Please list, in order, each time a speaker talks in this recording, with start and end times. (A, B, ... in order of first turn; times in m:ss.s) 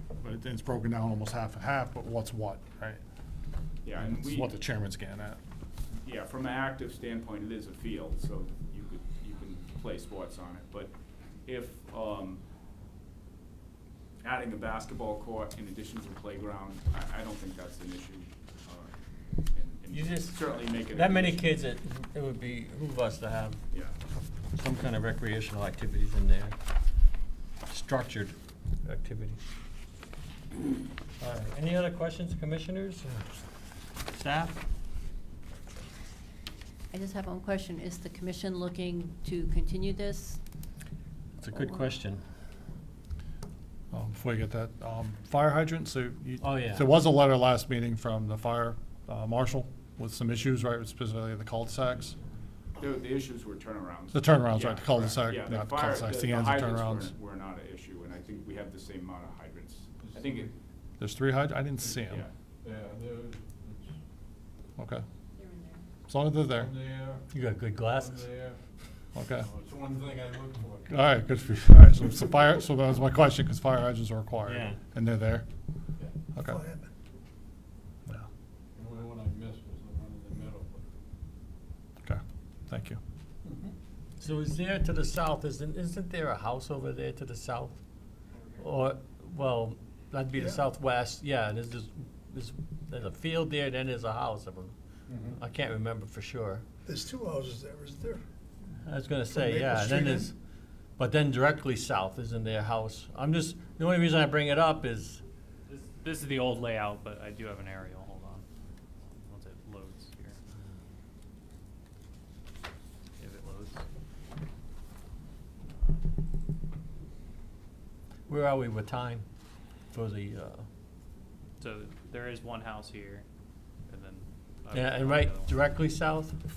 0:00.2-0:03.0 A
0:03.8-0:04.5 B
0:04.0-0:05.4 A
0:06.0-0:10.9 B
0:11.5-0:12.4 B
0:14.2-0:18.9 B
0:19.5-0:21.4 B
0:19.9-0:23.6 C
0:24.5-0:26.6 C
0:27.7-0:29.4 C
0:31.2-0:33.3 C
0:34.1-0:34.6 C
0:36.9-0:40.4 D
0:41.4-0:42.2 C
0:43.9-0:52.2 A
0:46.4-0:46.9 C
0:52.8-1:00.5 B
0:54.1-0:57.1 A
1:00.0-1:00.5 E
1:01.0-1:02.3 A
1:02.6-1:03.9 E
1:04.8-1:05.0 A
1:05.4-1:05.8 D
1:06.1-1:06.7 A
1:06.5-1:07.3 E
1:07.3-1:08.3 C
1:07.8-1:08.6 E
1:09.2-1:09.5 A
1:09.4-1:10.9 E
1:10.9-1:15.5 A
1:14.5-1:14.8 C
1:16.3-1:16.7 A
1:16.5-1:16.9 F
1:18.8-1:20.9 E
1:22.0-1:23.0 A
1:24.2-1:27.8 C
1:28.6-1:34.8 C
1:35.1-1:35.4 E
1:35.4-1:36.6 C
1:36.9-1:38.2 F
1:38.8-1:40.3 C
1:39.4-1:40.2 F
1:41.0-1:45.2 C
1:45.7-1:48.4 G
1:49.0-1:50.4 G
1:53.2-1:53.8 G
1:55.7-1:56.0 G
1:58.3-1:59.2 C
1:59.9-2:00.6 C
2:01.6-2:03.2 G
2:03.9-2:05.6 G
2:04.7-2:06.3 C